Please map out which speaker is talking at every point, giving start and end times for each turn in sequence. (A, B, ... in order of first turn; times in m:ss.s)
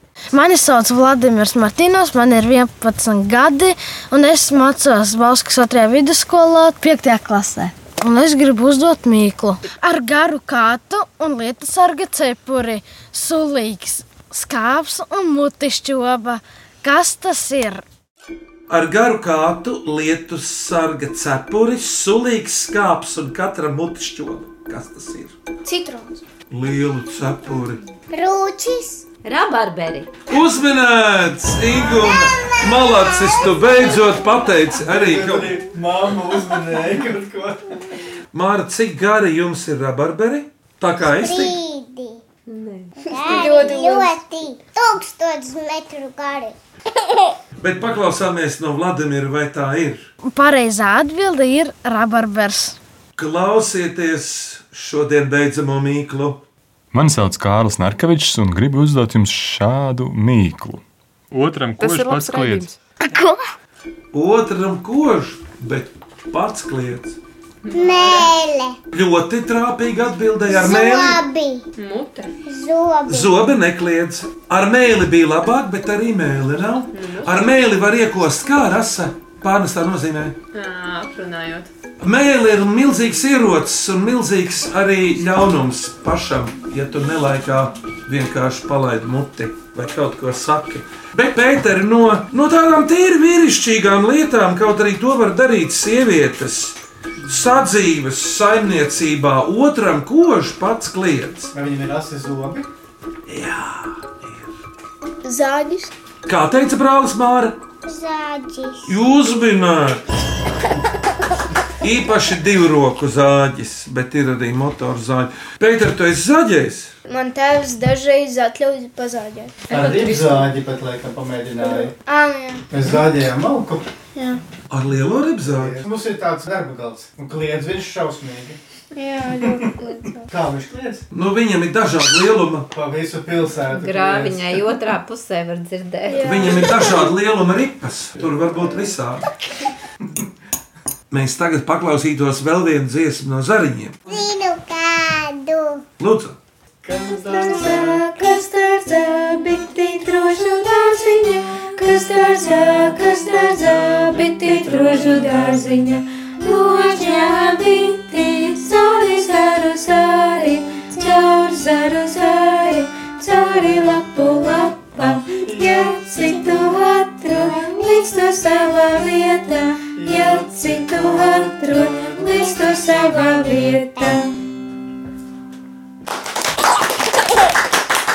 0:00.3-0:17.8 A
0:18.7-0:25.4 B
0:25.6-0:26.2 C
0:26.5-0:27.8 B
0:28.1-0:29.0 D
0:29.2-0:30.1 E
0:30.3-0:35.6 B
0:31.8-0:33.5 D
0:34.8-0:37.9 F
0:38.3-0:41.6 B
0:41.0-0:42.2 D
0:42.5-0:42.9 E
0:43.1-0:44.2 C
0:43.1-0:47.4 D
0:47.6-0:50.1 B
0:50.2-0:52.8 A
0:53.2-0:56.4 B
0:56.9-1:02.7 G
1:01.8-1:02.7 H
1:04.1-1:07.2 B
1:07.6-1:08.4 H
1:07.7-1:08.8 D
1:08.9-1:11.2 B
1:10.5-1:11.6 D
1:11.8-1:12.3 H
1:12.4-1:13.4 D
1:13.1-1:20.4 B
1:16.9-1:17.5 H
1:20.5-1:21.7 H
1:22.0-1:41.5 B
1:41.5-1:42.7 F
1:43.2-1:44.2 B
1:45.2-1:45.9 C
1:46.2-1:47.6 B
1:47.8-1:49.0 D
1:48.9-1:50.0 B
1:51.8-1:56.9 B
1:57.1-1:59.6 C
1:59.7-2:00.5 H
1:59.7-2:01.9 F
2:01.6-2:02.7 C
2:02.7-2:03.9 F
2:04.2-2:04.4 C
2:04.7-2:05.8 B
2:05.4-2:08.6 F
2:08.9-2:10.3 C
2:10.3-2:11.0 F
2:11.1-2:12.7 B
2:12.7-2:14.6 F
2:13.7-2:16.5 E
2:16.1-2:17.1 C
2:16.2-2:19.2 B
2:21.1-2:24.0 B
2:24.1-2:25.8 D
2:26.0-2:26.4 B
2:26.8-2:28.0 F
2:27.1-2:54.3 I
2:35.0-2:35.6 F
2:45.3-2:45.6 F
2:49.9-2:51.2 F
2:51.7-2:52.3 F